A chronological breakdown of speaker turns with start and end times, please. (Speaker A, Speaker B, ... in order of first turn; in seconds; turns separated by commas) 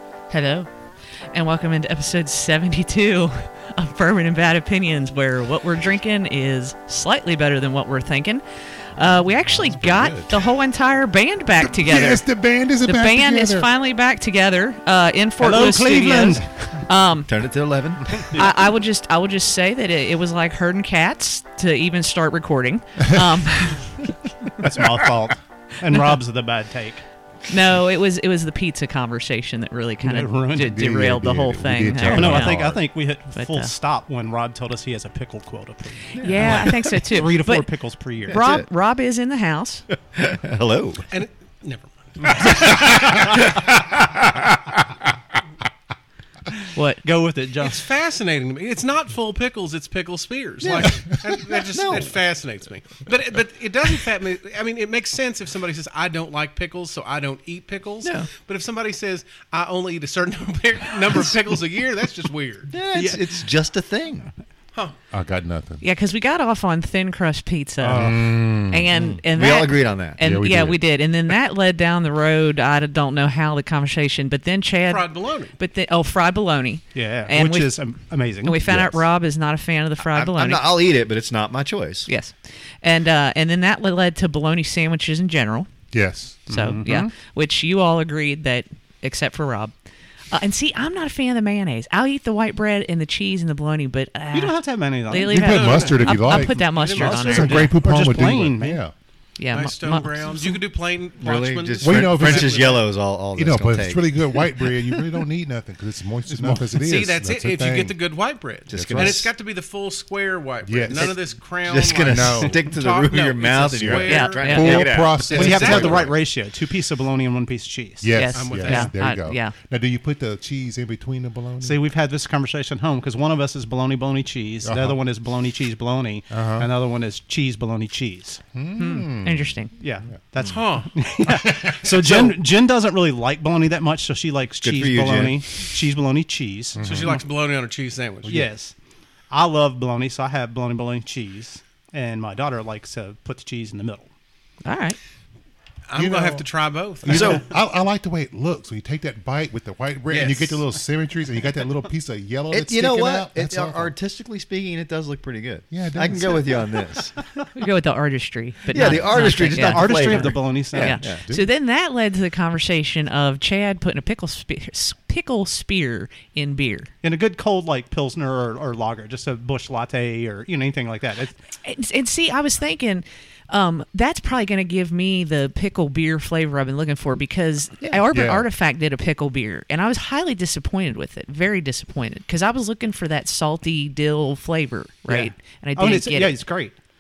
Speaker A: 0.3-0.7, Speaker A: 1.3-8.4, Speaker A: 9.0-12.2, Speaker B: 9.9-10.3, Speaker C: 11.6-13.7, Speaker A: 12.8-17.3, Speaker D: 15.4-16.5, Speaker B: 17.3-18.5, Speaker A: 18.3-24.0, Speaker D: 24.6-27.0, Speaker A: 27.5-32.7, Speaker D: 30.0-30.8, Speaker C: 30.7-32.9, Speaker D: 32.0-38.4, Speaker A: 33.3-33.7, Speaker B: 36.2-36.8, Speaker A: 36.2-39.9, Speaker B: 38.3-38.7, Speaker B: 40.1-41.1, Speaker E: 41.1-43.0, Speaker B: 42.4-44.8, Speaker A: 46.8-47.0, Speaker D: 47.0-47.8, Speaker E: 47.6-62.7, Speaker B: 50.6-52.1, Speaker C: 50.8-51.1, Speaker A: 58.0-58.3, Speaker B: 62.7-64.3, Speaker D: 62.9-63.3, Speaker C: 65.1-65.8, Speaker A: 65.8-77.8, Speaker C: 67.8-68.9, Speaker D: 67.9-68.2, Speaker B: 68.9-70.2, Speaker C: 70.2-70.8, Speaker E: 74.9-75.6, Speaker D: 76.9-78.8, Speaker A: 78.4-80.7, Speaker C: 78.7-79.0, Speaker B: 80.0-82.1, Speaker A: 82.1-85.7, Speaker C: 85.9-86.5, Speaker D: 86.5-87.1, Speaker A: 86.5-89.7, Speaker A: 90.3-97.8, Speaker D: 94.3-95.8, Speaker C: 95.2-98.9, Speaker E: 95.4-97.6, Speaker D: 96.3-98.8, Speaker A: 99.4-100.6, Speaker E: 99.5-102.9, Speaker B: 101.2-105.0, Speaker C: 101.8-102.8, Speaker C: 103.3-108.0, Speaker E: 106.7-116.1, Speaker C: 108.7-109.3, Speaker B: 108.7-109.3, Speaker C: 110.6-111.1, Speaker B: 110.9-115.8, Speaker C: 112.1-112.6, Speaker C: 113.8-116.2, Speaker A: 114.0-115.0, Speaker D: 115.3-118.1, Speaker C: 118.0-121.8, Speaker A: 118.1-119.5, Speaker E: 118.3-118.9, Speaker D: 121.6-128.4, Speaker C: 124.6-125.0, Speaker C: 126.3-126.7, Speaker C: 128.5-129.6, Speaker A: 128.8-129.7, Speaker D: 129.8-137.2, Speaker E: 130.4-130.9, Speaker C: 131.3-131.8, Speaker B: 134.6-135.4, Speaker C: 136.8-137.2, Speaker E: 136.8-138.5, Speaker D: 138.3-138.7, Speaker D: 139.3-144.1, Speaker A: 144.7-145.0, Speaker E: 145.9-147.4, Speaker C: 146.0-146.5, Speaker C: 147.0-153.9, Speaker B: 147.1-147.4, Speaker E: 150.1-150.6, Speaker B: 152.5-157.2, Speaker C: 155.7-156.7, Speaker A: 157.5-166.9, Speaker B: 158.7-161.2, Speaker D: 158.8-161.0, Speaker C: 161.0-161.5, Speaker D: 167.0-171.4, Speaker A: 171.6-186.4, Speaker C: 178.1-178.5, Speaker D: 185.1-186.8